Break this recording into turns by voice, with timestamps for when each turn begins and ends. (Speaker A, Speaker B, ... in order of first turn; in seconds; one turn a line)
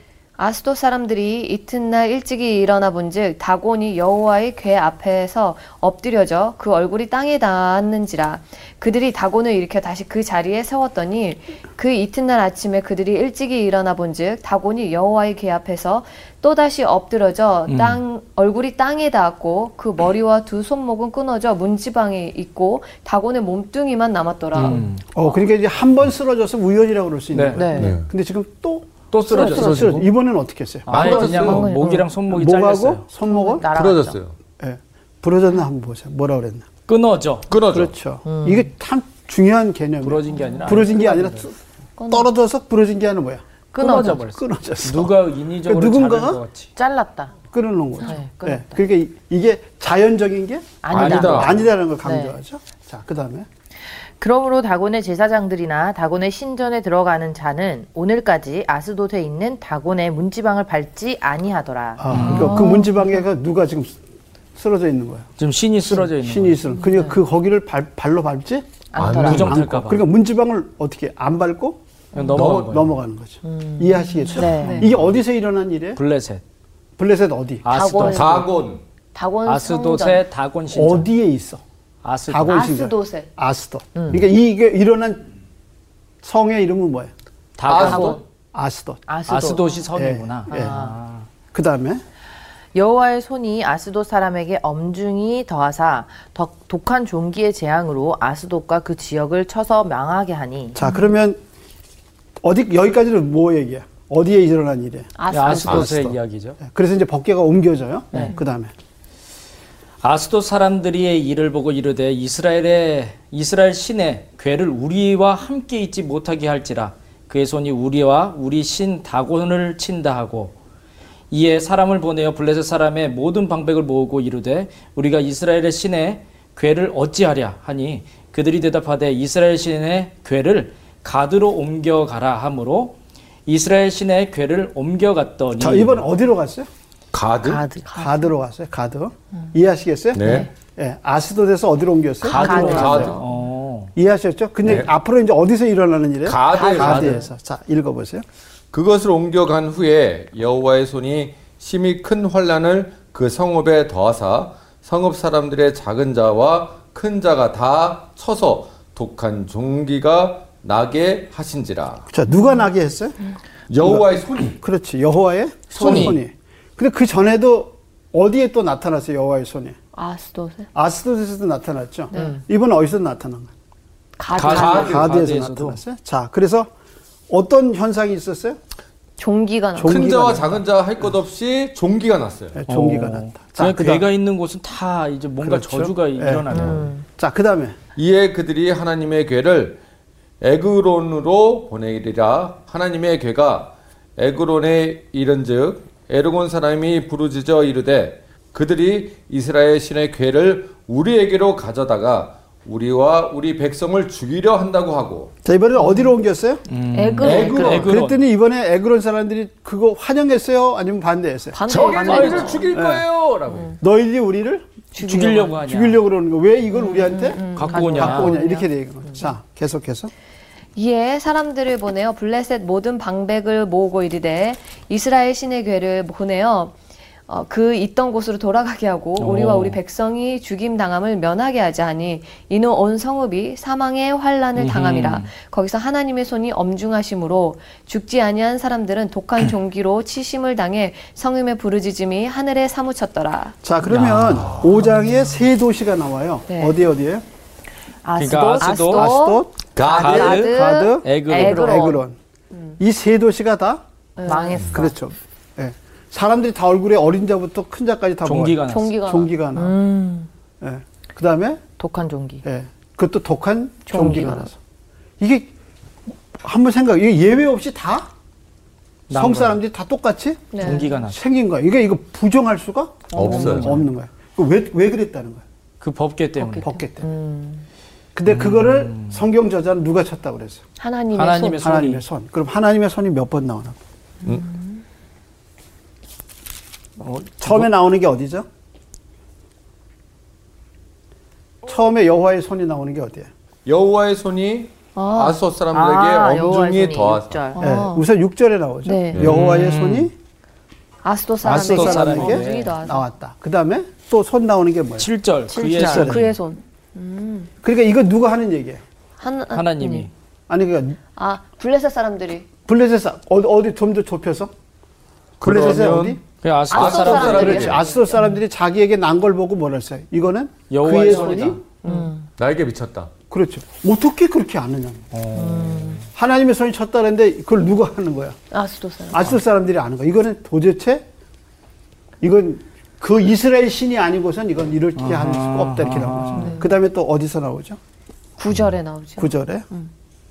Speaker A: 0.4-24.9
Speaker B: 17.7-18.0
Speaker B: 24.6-25.1
Speaker C: 25.1-31.2
Speaker B: 27.3-27.6
Speaker D: 27.5-28.0
Speaker E: 27.8-28.1
Speaker B: 29.1-30.1
Speaker B: 30.9-33.0
Speaker E: 30.9-31.8
Speaker A: 31.0-32.1
Speaker C: 32.3-33.7
Speaker A: 33.3-33.6
Speaker D: 33.5-34.2
Speaker E: 33.7-34.4
Speaker C: 34.6-36.7
Speaker B: 36.9-37.5
Speaker E: 37.5-37.9
Speaker C: 37.7-41.6
Speaker D: 38.2-38.7
Speaker B: 40.0-41.4
Speaker A: 42.0-42.3
Speaker C: 42.1-43.4
Speaker B: 43.8-46.7
Speaker A: 43.8-44.2
Speaker C: 44.0-45.1
Speaker C: 45.7-46.4
Speaker D: 46.8-47.3
Speaker C: 47.5-53.5
Speaker D: 48.0-48.8
Speaker D: 50.8-52.4
Speaker E: 50.9-51.6
Speaker B: 50.9-51.5
Speaker D: 54.2-62.6
Speaker C: 62.0-64.0
Speaker B: 62.1-62.6
Speaker A: 62.1-63.1
Speaker C: 64.5-65.3
Speaker B: 65.4-66.6
Speaker C: 66.1-68.7
Speaker D: 66.8-67.1
Speaker D: 68.9-69.6
Speaker E: 69.0-69.9
Speaker B: 69.0-70.1
Speaker C: 69.4-71.8
Speaker B: 72.2-72.9
Speaker E: 72.3-72.8
Speaker C: 72.5-76.0
Speaker D: 73.5-73.8
Speaker A: 74.2-74.9
Speaker D: 74.3-74.9
Speaker B: 76.0-76.4
Speaker C: 77.0-77.7
Speaker B: 77.6-78.5
Speaker A: 77.7-78.5
Speaker E: 78.0-78.8
Speaker A: 79.1-80.2
Speaker B: 79.5-81.1
Speaker C: 80.7-81.6
Speaker B: 82.0-82.7
Speaker C: 82.3-85.3
Speaker A: 82.5-83.3
Speaker D: 84.0-84.2
Speaker C: 86.2-87.1
Speaker B: 87.6-88.2
Speaker E: 87.7-88.2
Speaker A: 87.7-88.2
Speaker C: 88.5-89.0
Speaker D: 89.1-89.9
Speaker B: 89.3-91.3
Speaker C: 89.9-90.8
Speaker D: 90.5-91.0
Speaker C: 91.5-92.0
Speaker D: 92.7-100.8
Speaker C: 100.8-101.4
Speaker A: 100.8-101.1
Speaker C: 102.4-108.7
Speaker A: 105.2-105.9
Speaker B: 105.3-106.6
Speaker E: 105.7-106.0
Speaker B: 110.0-120.5
Speaker B: 121.3-136.1
Speaker C: 135.6-136.7
Speaker E: 137.1-137.7
Speaker D: 137.4-137.9
Speaker A: 137.8-138.3
Speaker C: 137.9-143.1
Speaker E: 140.1-140.5
Speaker B: 142.2-143.9
Speaker D: 142.3-143.2
Speaker A: 142.5-143.4
Speaker E: 142.7-143.2
Speaker C: 143.9-148.2
Speaker E: 146.2-147.2
Speaker A: 146.6-147.1
Speaker B: 146.7-147.3
Speaker E: 148.7-162.1
Speaker C: 162.1-163.2
Speaker E: 163.7-164.6
Speaker C: 163.8-169.8
Speaker D: 165.8-166.2
Speaker B: 165.9-166.2
Speaker A: 169.9-170.7
Speaker C: 170.8-173.5
Speaker D: 172.1-172.4
Speaker A: 174.2-175.1
Speaker B: 174.3-175.8
Speaker E: 174.3-175.1
Speaker C: 174.5-176.7
Speaker C: 177.3-178.6
Speaker A: 179.2-180.2
Speaker C: 179.8-180.6
Speaker E: 179.8-182.6
Speaker C: 182.6-184.1
Speaker B: 182.7-186.9
Speaker C: 185.4-187.8
Speaker D: 186.5-186.9
Speaker E: 188.0-189.8
Speaker E: 190.4-205.3
Speaker C: 205.4-206.6
Speaker A: 205.8-206.1
Speaker B: 206.7-208.2
Speaker A: 206.9-207.9
Speaker E: 207.2-207.9
Speaker C: 207.7-212.0
Speaker A: 211.5-212.7
Speaker E: 211.7-213.8
Speaker B: 211.9-212.6
Speaker C: 212.7-213.0
Speaker C: 213.8-220.1
Speaker A: 215.0-215.5
Speaker B: 215.0-216.0
Speaker A: 216.7-218.7
Speaker B: 217.5-218.3
Speaker D: 217.6-218.4
Speaker A: 220.8-226.8
Speaker A: 227.3-243.6
Speaker B: 229.2-229.8
Speaker B: 234.6-235.3
Speaker C: 243.6-247.2
Speaker B: 243.9-244.7
Speaker A: 246.5-246.8
Speaker D: 248.0-249.1
Speaker B: 248.2-249.1
Speaker A: 248.6-252.0
Speaker C: 248.9-252.2
Speaker E: 249.8-250.4
Speaker B: 249.9-251.8
Speaker D: 251.3-252.0
Speaker C: 252.8-253.8
Speaker A: 254.2-254.7
Speaker D: 254.2-254.9
Speaker E: 254.6-254.8
Speaker C: 254.7-259.8
Speaker B: 258.2-259.0
Speaker A: 258.7-260.0
Speaker D: 259.6-260.3
Speaker C: 260.6-261.6
Speaker D: 261.8-262.4
Speaker C: 262.4-264.6
Speaker A: 263.9-264.5
Speaker D: 263.9-264.4
Speaker C: 265.2-265.5
Speaker C: 266.3-268.1
Speaker B: 269.1-269.6
Speaker C: 269.1-275.4
Speaker A: 270.5-270.9
Speaker B: 270.6-271.2
Speaker E: 273.1-273.8
Speaker B: 273.2-273.9
Speaker B: 275.8-276.7
Speaker A: 276.4-276.9
Speaker C: 276.6-277.1
Speaker D: 277.0-277.6
Speaker C: 278.1-280.6
Speaker B: 278.3-279.3
Speaker A: 280.8-281.6
Speaker B: 281.1-282.0
Speaker C: 281.6-283.8
Speaker A: 284.3-284.7
Speaker B: 287.0-287.7
Speaker C: 287.4-288.5
Speaker C: 291.6-293.3
Speaker E: 293.6-297.5
Speaker A: 294.9-295.4
Speaker D: 295.7-297.6
Speaker A: 297.5-298.1
Speaker C: 297.6-300.1
Speaker A: 298.9-299.2
Speaker B: 299.2-300.1
Speaker A: 301.0-303.1
Speaker C: 301.4-305.1
Speaker B: 301.4-302.8
Speaker B: 305.0-306.3
Speaker D: 305.5-306.2
Speaker A: 305.7-307.5
Speaker C: 305.8-306.3
Speaker C: 307.6-308.8
Speaker A: 309.2-310.1
Speaker B: 309.5-310.1
Speaker C: 310.5-311.0
Speaker A: 311.1-312.5
Speaker C: 312.7-314.5
Speaker E: 315.4-318.0
Speaker C: 315.4-316.2
Speaker B: 316.4-317.8
Speaker A: 316.7-318.3
Speaker C: 317.1-321.6
Speaker B: 320.7-321.6
Speaker A: 321.8-322.2
Speaker D: 321.9-322.2
Speaker E: 322.4-323.1
Speaker C: 323.3-325.1
Speaker B: 325.1-326.1
Speaker A: 325.4-326.0
Speaker C: 326.1-328.4
Speaker A: 328.5-329.3
Speaker C: 329.1-331.1
Speaker C: 332.2-337.8
Speaker B: 335.0-336.6
Speaker A: 336.4-336.7
Speaker A: 338.4-339.9
Speaker C: 339.2-339.7